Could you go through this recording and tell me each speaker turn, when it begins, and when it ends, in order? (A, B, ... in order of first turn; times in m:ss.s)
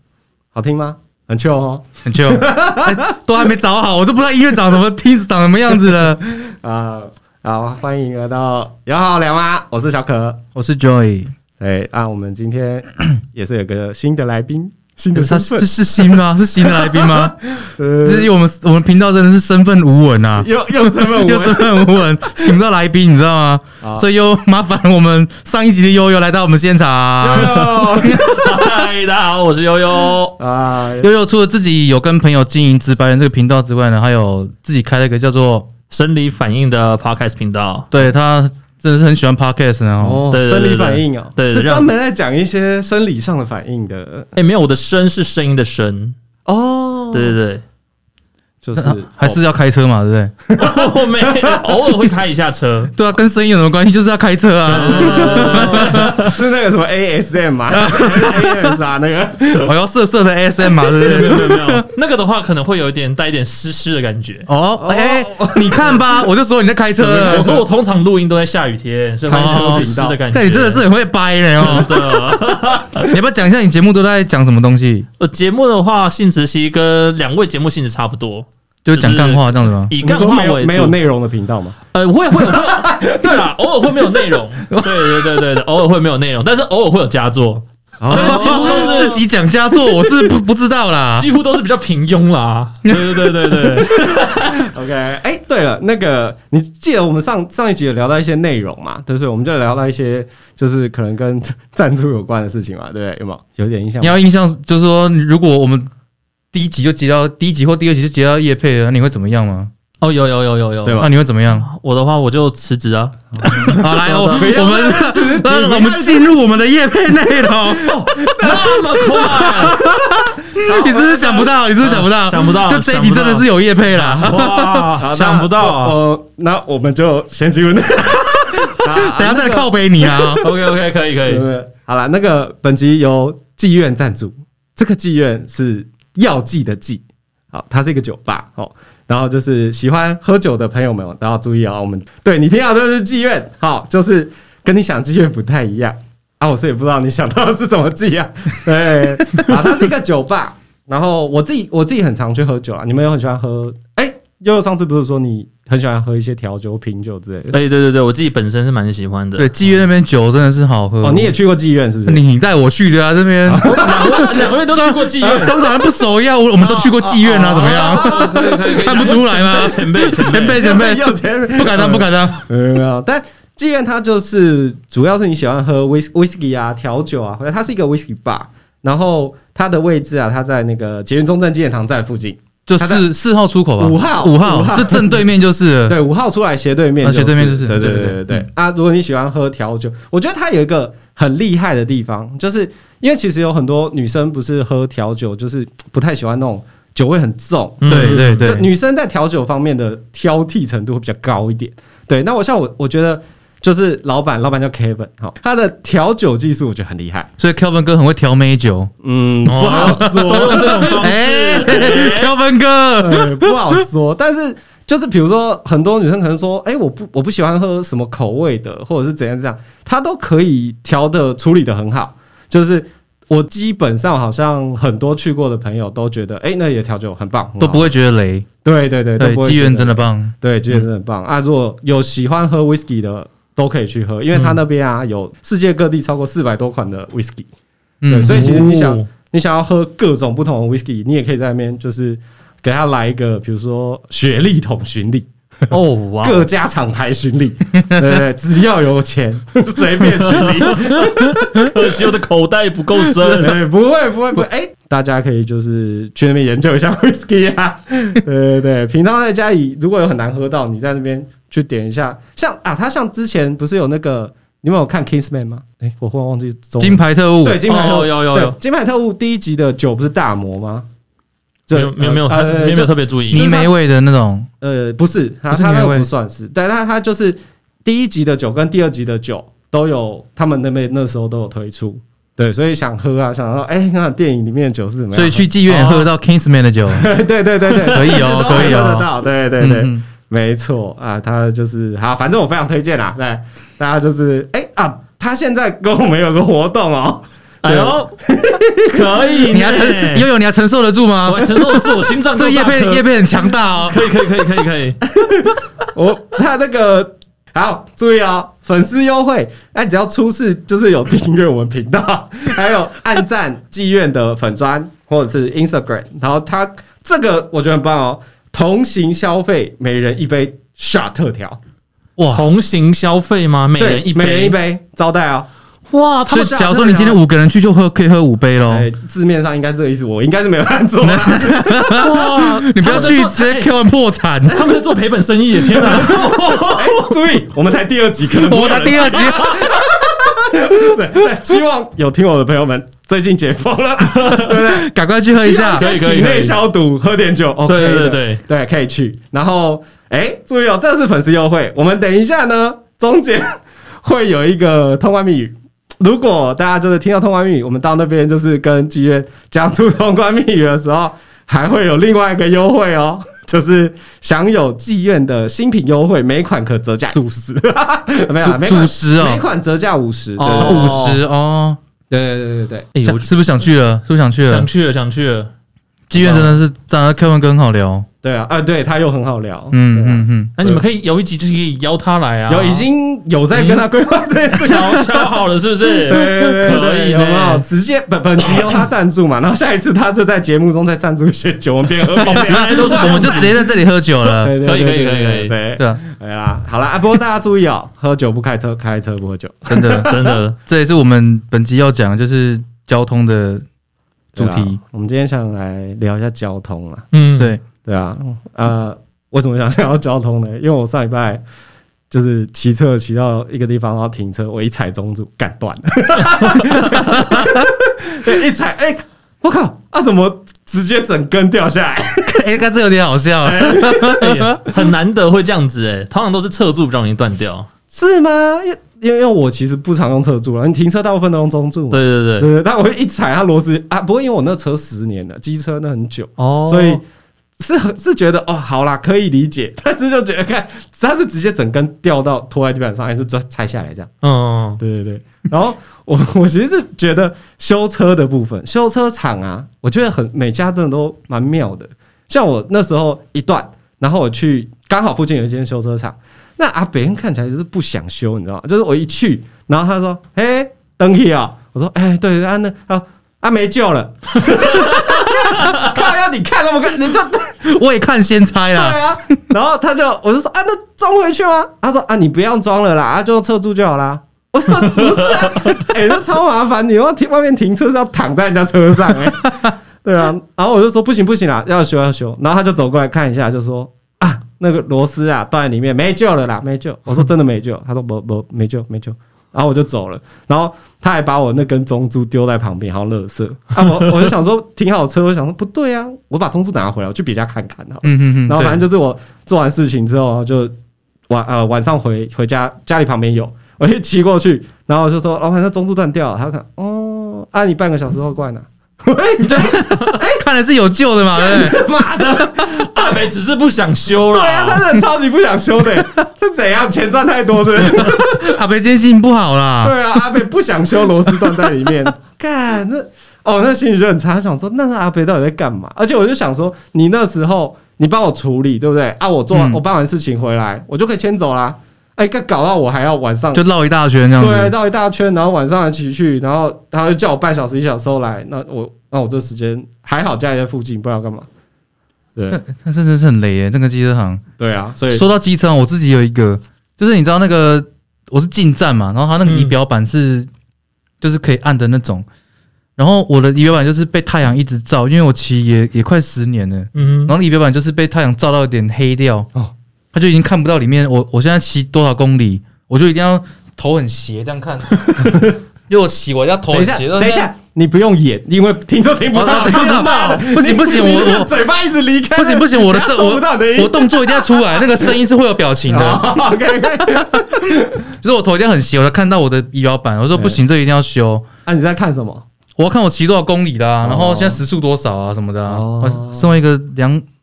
0:00.5-0:03.1 A
0:02.0-0:06.4 B
0:06.3-0:10.4 A
0:10.5-0:11.3 B
0:11.6-0:18.3 A
0:15.1-0:17.4 B
0:18.0-0:28.7 B
0:20.4-0:22.3 A
0:27.2-0:28.4 A
0:28.0-0:30.4 C
0:30.4-0:31.1 A
0:31.0-0:35.7 B
0:35.9-0:37.9 C
0:37.9-0:40.2 B
0:40.0-0:44.3 A
0:40.3-0:41.9 C
0:44.4-0:46.2 C
0:46.4-0:47.4 A
0:47.1-0:47.6 C
0:48.6-0:49.4 A
0:48.8-0:50.3 B
0:50.5-0:51.7 A
0:50.6-0:52.9 C
0:53.0-0:56.3 B
0:54.7-0:56.4 C
0:54.7-0:59.7 A
0:57.7-0:58.8 B
0:59.6-1:01.8 B
1:00.9-1:04.5 C
1:04.5-1:07.6 B
1:04.8-1:06.3 A
1:07.0-1:07.6 A
1:07.0-1:10.8 C
1:09.3-1:10.2 A
1:09.3-1:12.3 B
1:11.6-1:13.1 C
1:13.0-1:15.1 B
1:15.2-1:20.9 C
1:18.8-1:19.9 B
1:20.0-1:21.8 A
1:21.9-1:29.2 C
1:22.5-1:23.3 A
1:24.7-1:25.2 B
1:28.0-1:29.2 A
1:28.1-1:31.3 B
1:31.1-1:34.7 C
1:32.8-1:34.3 B
1:34.5-1:44.1 A
1:44.0-1:45.9 B
1:46.5-1:49.7 B
1:50.0-1:54.5 C
1:50.8-1:51.1 A
1:51.0-1:51.6 B
1:53.4-1:56.3 A
1:53.4-1:58.5 B
1:57.5-2:01.5 A
1:58.2-1:59.8 C
1:59.2-2:05.0 B
2:01.8-2:06.0 C
2:05.0-2:10.4 A
2:08.6-2:10.4 B
2:10.4-2:11.4 C
2:11.2-2:37.5 A
2:37.5-2:39.7 C
2:39.4-2:41.3 B
2:41.0-2:42.2 A
2:42.0-2:52.4 B
2:43.5-2:44.4 A
2:43.6-2:45.6 C
2:45.2-2:45.6 A
2:46.7-3:03.0 A
2:46.8-2:50.7 C
3:02.7-3:06.0 B
3:03.8-3:05.2 A
3:05.9-3:27.3 A
3:07.0-3:08.4 B
3:17.8-3:18.5 C
3:17.9-3:18.7 B
3:27.4-3:28.9 B
3:29.0-3:31.1 A
3:29.4-3:32.3 C
3:29.8-3:33.8 B
3:31.6-3:31.9 A
3:33.0-3:47.9 A
3:47.6-3:48.5 B
3:48.6-3:57.5 A
3:49.2-3:50.8 B
3:54.3-3:54.6 C
3:58.0-3:58.6 B
3:58.1-4:05.3 A
3:58.2-3:59.1 C
4:05.7-4:06.5 C
4:06.2-4:11.9 A
4:10.2-4:13.6 C
4:13.4-4:30.8 A
4:26.8-4:27.6 B
4:27.6-4:28.6 C
4:31.7-4:33.7 A
4:31.7-4:33.6 C
4:33.3-4:34.5 B
4:34.6-4:45.5 A
4:35.5-4:36.1 B
4:45.1-4:47.1 B
4:45.7-4:46.1 C
4:46.9-4:59.3 A
4:47.8-4:50.0 B
4:57.6-4:58.1 C
4:58.9-5:00.2 C
4:59.5-5:01.6 B
5:01.2-5:03.2 C
5:02.3-5:04.0 B
5:03.8-5:05.0 C
5:05.1-5:21.6 A
5:22.2-5:22.4 B
5:22.3-5:24.6 C
5:23.8-5:25.5 A
5:25.9-5:26.6 C
5:26.3-5:27.2 A
5:26.3-5:28.9 B
5:28.7-5:32.1 A
5:31.0-5:34.6 B
5:31.9-5:33.7 C
5:32.8-5:33.2 A
5:34.4-5:37.1 C
5:35.8-6:11.2 A
5:38.3-5:39.7 B
5:39.0-5:39.6 C
5:44.0-5:44.5 C
5:44.5-5:45.9 B
5:45.7-5:46.6 C
5:47.6-5:48.4 C
6:08.4-6:09.4 B
6:10.4-6:11.2 C
6:10.6-6:11.8 B
6:12.1-6:12.9 A
6:12.9-6:13.3 C
6:13.0-6:14.7 B
6:14.4-6:15.5 C
6:16.1-6:18.1 B
6:16.1-6:16.6 A
6:18.2-6:20.8 A
6:19.7-6:20.5 B
6:20.6-6:22.9 C
6:22.5-6:25.3 A
6:23.5-6:23.8 C
6:24.5-6:27.6 C
6:26.0-6:33.6 A
6:32.2-6:33.5 C
6:32.2-6:34.5 B
6:34.2-6:40.3 A
6:34.6-6:35.5 C
6:39.7-6:43.6 B
6:40.0-6:40.6 C
6:44.4-6:47.1 A
6:44.4-6:44.8 B
6:47.1-6:47.5 C
6:47.4-6:47.6 B
6:47.8-6:51.4 A
6:52.1-7:02.4 A
6:56.2-6:57.1 C
6:57.1-6:57.7 B
7:02.2-7:04.6 B
7:03.4-7:04.2 A
7:04.2-7:07.7 C
7:07.9-7:17.0 A
7:11.9-7:12.5 C
7:16.4-7:17.0 C
7:17.6-7:24.1 A
7:24.2-7:24.8 C
7:24.8-7:47.6 A
7:44.6-7:45.9 C
7:47.6-7:49.2 B
7:48.7-8:20.7 A
7:54.7-7:55.8 C
8:18.0-8:18.8 B
8:21.3-8:30.5 A
8:29.4-8:31.9 B
8:29.8-8:30.2 C
8:31.4-8:33.2 A
8:32.3-8:34.8 C
8:34.2-8:38.6 A
8:37.8-8:40.0 B
8:39.8-8:53.6 A
8:41.4-8:41.7 B
8:49.5-8:49.8 B
8:53.5-8:54.7 B
8:54.4-9:01.5 A
9:02.5-9:04.4 B
9:04.6-9:05.2 A
9:05.1-9:10.5 B
9:09.4-9:09.7 C
9:11.2-9:12.2 B
9:13.0-9:19.5 B
9:16.9-9:17.3 C
9:20.1-9:27.5 B
9:25.2-9:25.5 A
9:26.7-9:35.2 A
9:29.3-9:31.5 B
9:29.5-9:30.4 C
9:32.4-9:36.3 B
9:35.9-9:38.0 A
9:37.0-9:41.5 B
9:41.6-9:42.4 A
9:42.8-9:47.2 B
9:44.0-9:44.6 A
9:45.6-9:46.5 A